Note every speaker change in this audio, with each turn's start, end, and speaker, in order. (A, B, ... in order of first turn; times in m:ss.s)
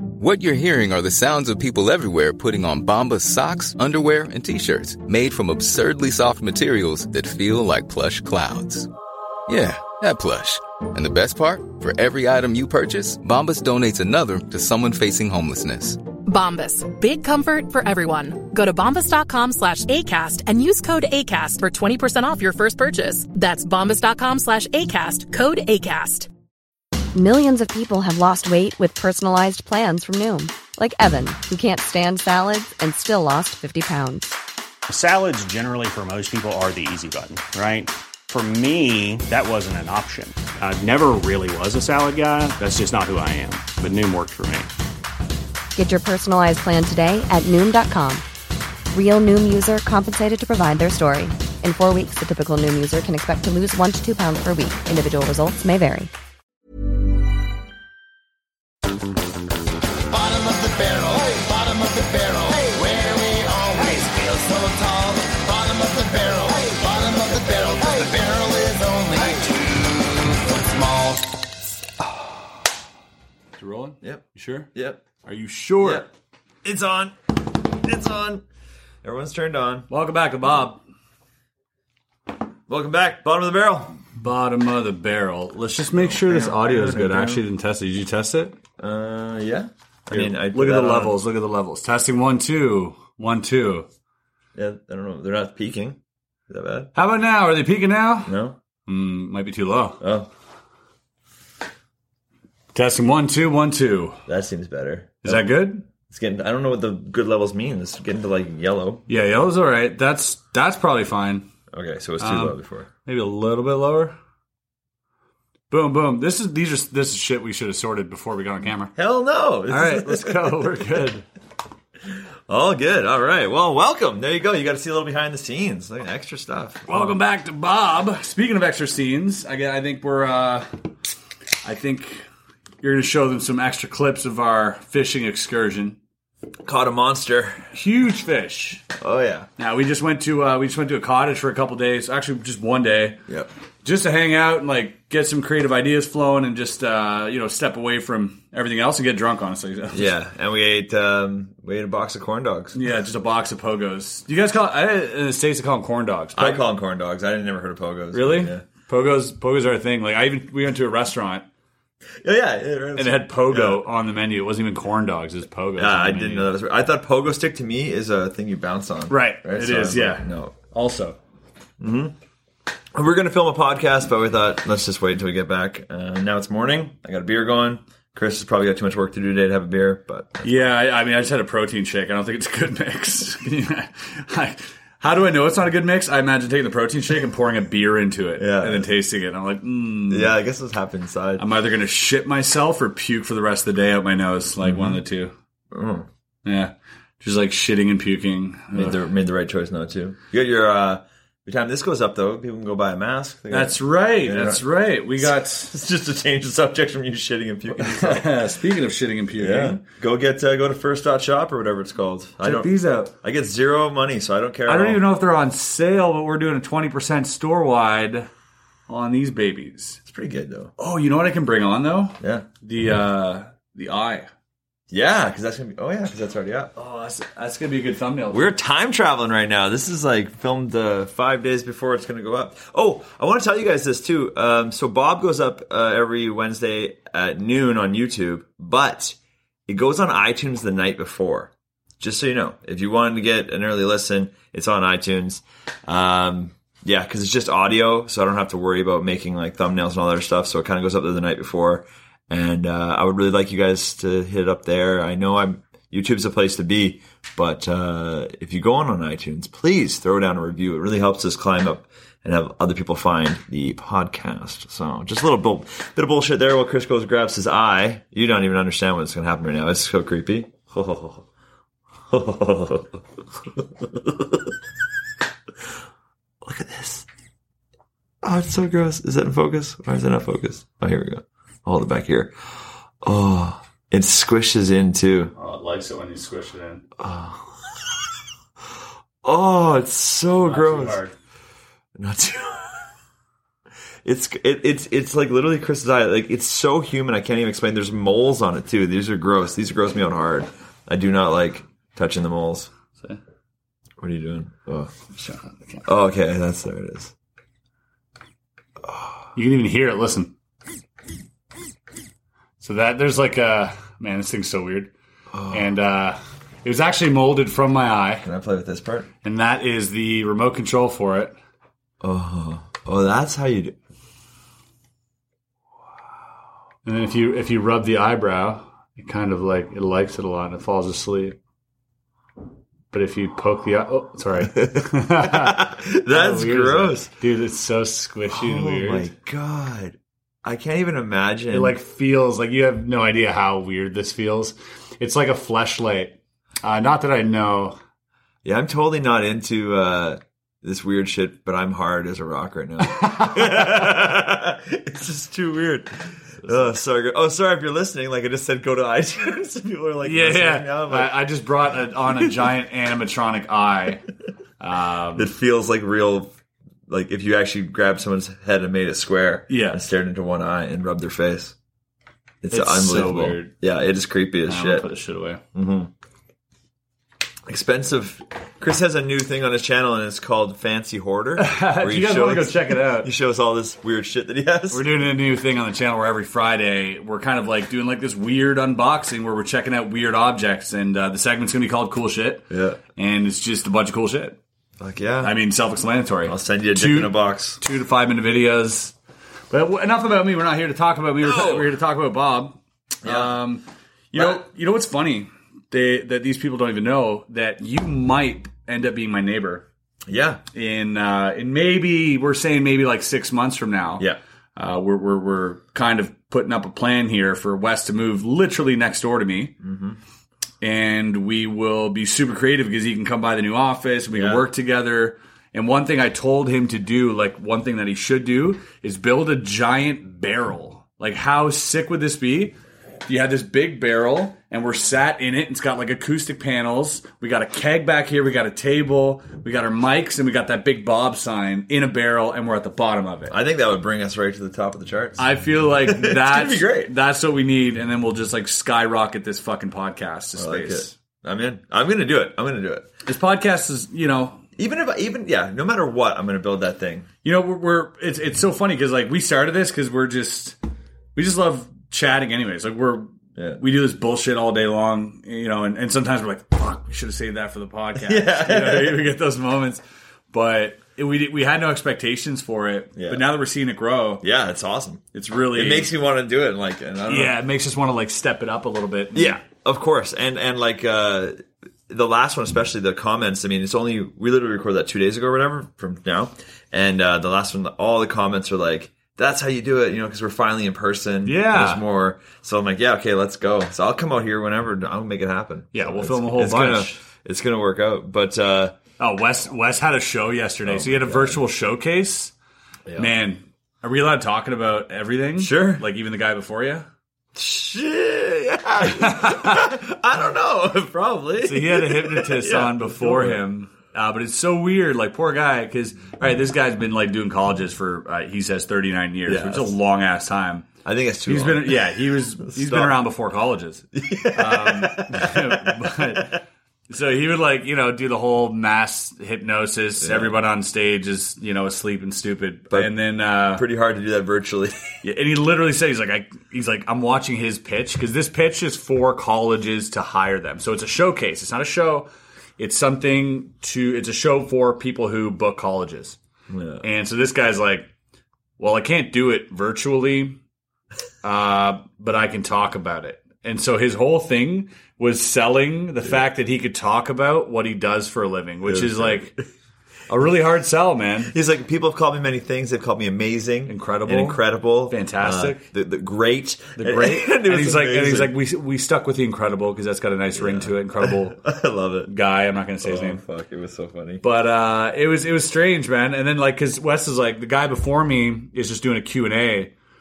0:00.2-0:08.9 A
0:09.5-0:16.0 A
0:16.2-0:26.3 B
0:27.1-0:34.4 C
0:34.9-0:44.7 D
0:45.8-0:48.2 C
0:48.9-0:56.1 C
1:00.1-1:11.4 E
1:13.6-1:14.7 F
1:14.0-1:15.0 G
1:15.2-1:16.1 F
1:15.8-1:16.1 G
1:16.6-1:18.4 G
1:19.0-1:19.9 G
1:19.9-1:20.8 F
1:22.7-1:24.0 G
1:24.1-1:28.5 F
1:25.9-1:27.4 G
1:28.8-1:31.2 G
1:30.1-1:33.9 F
1:34.5-1:36.0 G
1:36.5-1:36.9 G
1:36.9-1:38.4 F
1:38.2-1:38.6 G
1:38.9-1:40.0 F
1:40.0-1:40.3 G
1:42.7-1:44.2 F
1:44.2-1:45.5 G
1:45.2-1:45.8 F
1:46.1-1:49.0 G
1:49.1-1:51.5 F
1:51.7-1:52.9 G
1:52.2-1:54.1 F
1:55.7-1:58.9 F
1:59.0-2:00.8 G
1:59.7-2:01.2 F
2:02.5-2:07.2 G
2:06.9-2:10.7 F
2:11.6-2:12.2 F
2:12.8-2:16.0 F
2:16.6-2:17.7 G
2:17.7-2:18.8 F
2:19.0-2:19.5 G
2:19.6-2:23.2 F
2:23.8-2:30.1 F
2:29.9-2:32.8 G
2:32.7-2:36.6 F
2:36.4-2:38.6 G
2:38.1-2:41.4 F
2:42.2-2:43.8 G
2:43.0-2:46.5 F
2:45.8-2:50.5 G
2:49.1-2:51.2 F
2:51.8-2:52.1 G
2:52.9-3:00.7 G
3:00.4-3:10.4 F
3:08.4-3:08.9 G
3:10.1-3:11.4 G
3:11.4-3:15.3 F
3:14.6-3:15.0 G
3:15.7-3:16.1 G
3:16.4-3:19.0 F
3:18.7-3:24.6 G
3:23.5-3:25.7 F
3:25.2-3:28.3 G
3:27.7-3:29.8 F
3:29.4-3:35.0 G
3:32.4-3:33.1 F
3:34.6-3:38.3 F
3:38.9-3:40.0 F
3:40.0-3:40.7 G
3:40.8-3:44.3 F
3:42.2-3:42.4 G
3:44.9-3:46.7 G
3:46.8-3:48.5 F
3:48.3-4:31.2 G
4:32.1-4:34.5 G
4:36.4-4:37.0 G
4:38.2-4:42.3 G
4:43.0-4:45.3 G
4:45.4-4:46.8 F
4:47.0-4:47.6 G
4:49.2-4:51.0 G
4:50.4-4:51.1 F
4:52.0-4:52.8 G
4:54.0-5:02.7 G
5:04.0-5:04.9 G
5:05.1-5:05.8 F
5:05.8-5:07.1 G
5:09.4-5:10.3 F
5:12.6-5:14.9 F
5:15.3-5:15.7 G
5:15.5-5:18.3 F
5:18.2-5:19.1 G
5:19.2-5:21.3 F
5:22.0-5:23.7 G
5:26.8-5:31.4 F
5:32.9-5:39.1 F
5:34.5-5:37.1 G
5:38.3-5:41.8 G
5:41.5-5:47.8 F
5:48.4-6:01.2 G
5:52.8-5:54.0 F
5:56.4-5:56.7 F
6:00.0-6:04.0 F
6:04.6-6:05.3 F
6:05.1-6:06.3 G
6:06.9-6:11.5 G
6:09.5-6:09.8 F
6:12.4-6:14.9 G
6:12.5-6:13.5 F
6:14.4-6:15.4 F
6:15.5-6:15.9 G
6:17.4-6:24.9 G
6:21.4-6:23.1 F
6:24.7-6:34.4 F
6:32.5-6:32.8 G
6:34.8-6:35.4 G
6:35.2-6:38.9 F
6:36.2-6:37.6 G
6:39.5-6:49.6 F
6:41.2-6:41.7 G
6:43.0-6:43.4 G
6:44.1-6:44.4 G
6:50.1-6:50.4 G
6:50.5-6:59.6 F
6:59.6-7:00.0 G
7:00.6-7:23.4 F
7:04.1-7:04.4 G
7:23.3-7:25.3 G
7:25.2-7:30.9 F
7:25.8-7:26.9 G
7:30.4-7:32.9 G
7:33.0-7:34.4 F
7:34.6-7:37.1 G
7:37.2-7:40.6 F
7:41.1-7:54.2 F
7:43.4-7:43.6 G
7:48.0-7:49.0 G
7:53.0-7:53.2 G
7:54.2-7:57.4 G
7:55.1-7:55.9 F
7:57.1-7:59.4 F
7:59.1-8:18.8 G
8:11.2-8:11.8 F
8:15.7-8:17.0 F
8:19.0-8:22.3 F
8:20.6-8:21.4 G
8:22.9-8:23.1 G
8:23.0-8:26.9 F
8:25.4-8:25.8 G
8:27.3-8:33.4 G
8:28.8-8:29.6 F
8:31.4-8:40.7 F
8:39.3-8:39.8 G
8:40.8-8:43.0 G
8:41.3-8:46.4 F
8:43.9-8:46.3 G
8:46.9-8:53.6 F
8:50.0-8:50.3 G
8:53.5-8:54.9 G
8:55.0-9:06.2 F
9:06.5-9:06.8 G
9:06.8-9:07.9 F
9:08.6-9:10.4 F
9:11.2-9:19.3 F
9:18.6-9:19.4 G
9:20.1-9:21.3 F
9:21.3-9:28.3 G
9:23.6-9:25.7 F
9:26.8-9:31.4 F
9:30.3-9:32.1 G
9:32.0-9:33.2 F
9:32.8-9:34.2 G
9:34.2-9:39.7 F